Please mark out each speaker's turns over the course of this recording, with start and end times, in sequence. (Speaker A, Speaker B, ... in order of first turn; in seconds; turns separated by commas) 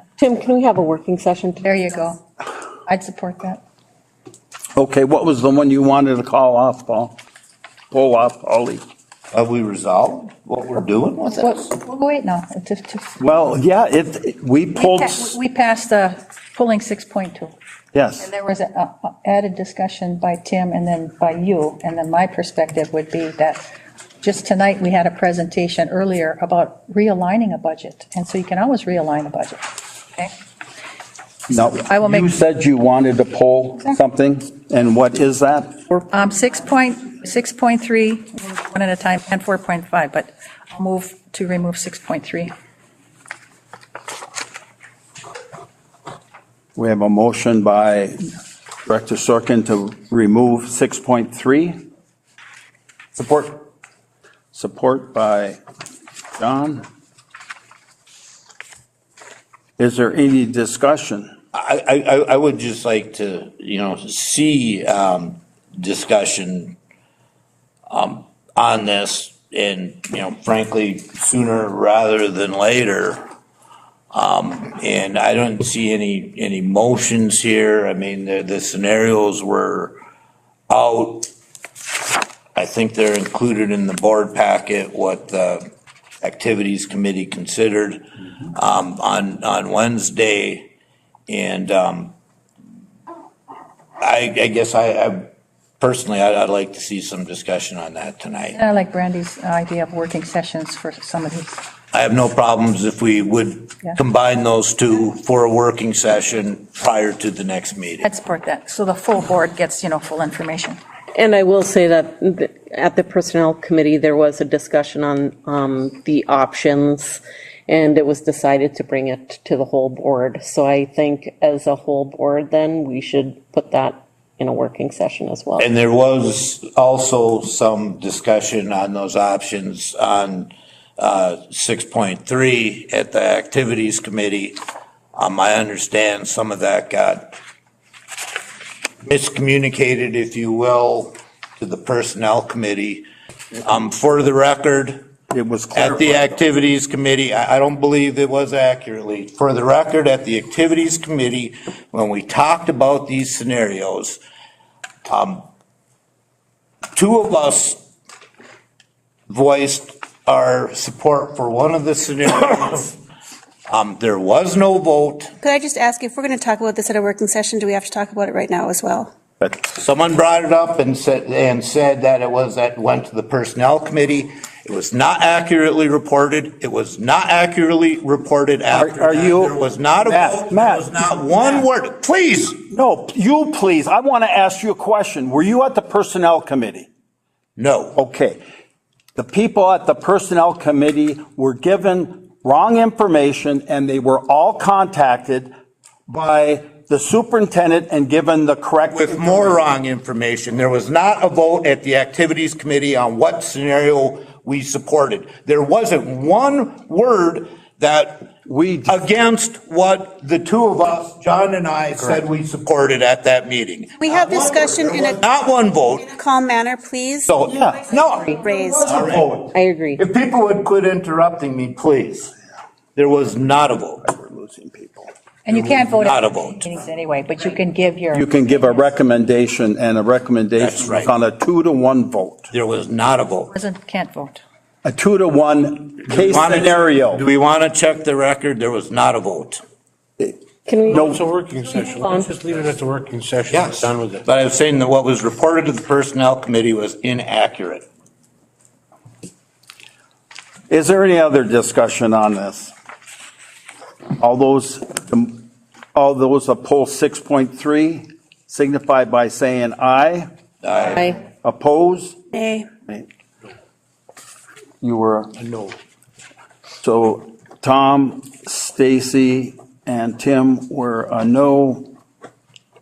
Speaker A: 0.2-2.1, Speaker B: 1.6-2.2, Speaker B: 2.9-3.6, Speaker C: 4.8-7.2, Speaker C: 7.9-8.8, Speaker D: 9.3-11.7, Speaker B: 11.4-13.1, Speaker C: 13.2-15.3, Speaker B: 14.7-17.5, Speaker C: 17.9-18.3, Speaker B: 18.2-23.6, Speaker B: 24.2-29.6, Speaker B: 31.5-32.4, Speaker C: 31.5-35.8, Speaker B: 36.1-42.5, Speaker C: 46.8-48.3, Speaker C: 48.9-51.8, Speaker C: 53.1-53.6, Speaker C: 54.5-55.6, Speaker C: 56.4-56.8, Speaker C: 59.8-61.3, Speaker D: 61.5-66.8, Speaker D: 67.9-73.2, Speaker D: 74.1-80.0, Speaker D: 80.7-81.3, Speaker D: 82.5-85.7, Speaker D: 86.2-90.7, Speaker D: 91.3-92.1, Speaker D: 94.0-95.3, Speaker D: 95.8-98.6, Speaker B: 98.5-101.6, Speaker D: 101.9-108.1, Speaker B: 108.0-110.8, Speaker A: 111.1-125.7, Speaker D: 125.6-134.6, Speaker D: 135.1-137.3, Speaker D: 139.0-143.1, Speaker D: 143.6-145.1, Speaker C: 145.3-146.4, Speaker D: 145.7-154.2, Speaker D: 155.0-155.4, Speaker D: 156.9-157.8, Speaker D: 159.3-163.0, Speaker D: 163.7-165.3, Speaker E: 165.4-169.1, Speaker D: 169.5-182.6, Speaker C: 178.7-181.6, Speaker C: 182.7-186.9, Speaker D: 187.6-188.0, Speaker C: 187.9-188.4, Speaker C: 189.2-195.5, Speaker C: 196.1-199.7, Speaker D: 198.9-208.3, Speaker C: 208.4-209.0, Speaker D: 208.9-216.1, Speaker E: 214.0-215.2, Speaker E: 216.0-217.3, Speaker D: 217.3-222.3, Speaker C: 217.4-218.0, Speaker E: 218.0-219.1, Speaker C: 218.9-219.5, Speaker A: 219.5-220.0, Speaker D: 222.9-224.0, Speaker C: 224.0-225.1, Speaker B: 225.4-228.8, Speaker D: 225.5-226.7, Speaker C: 228.1-232.5, Speaker D: 230.6-231.1, Speaker D: 232.5-233.5, Speaker B: 233.5-234.4, Speaker C: 234.8-237.3, Speaker D: 236.1-239.6, Speaker A: 240.7-242.4, Speaker C: 240.9-241.2, Speaker F: 240.9-244.2, Speaker D: 243.5-247.8, Speaker C: 250.7-252.7, Speaker C: 254.2-260.3, Speaker D: 260.6-261.1, Speaker A: 260.8-261.2, Speaker C: 261.4-262.2, Speaker E: 262.3-262.7, Speaker C: 264.8-265.4, Speaker C: 266.8-271.9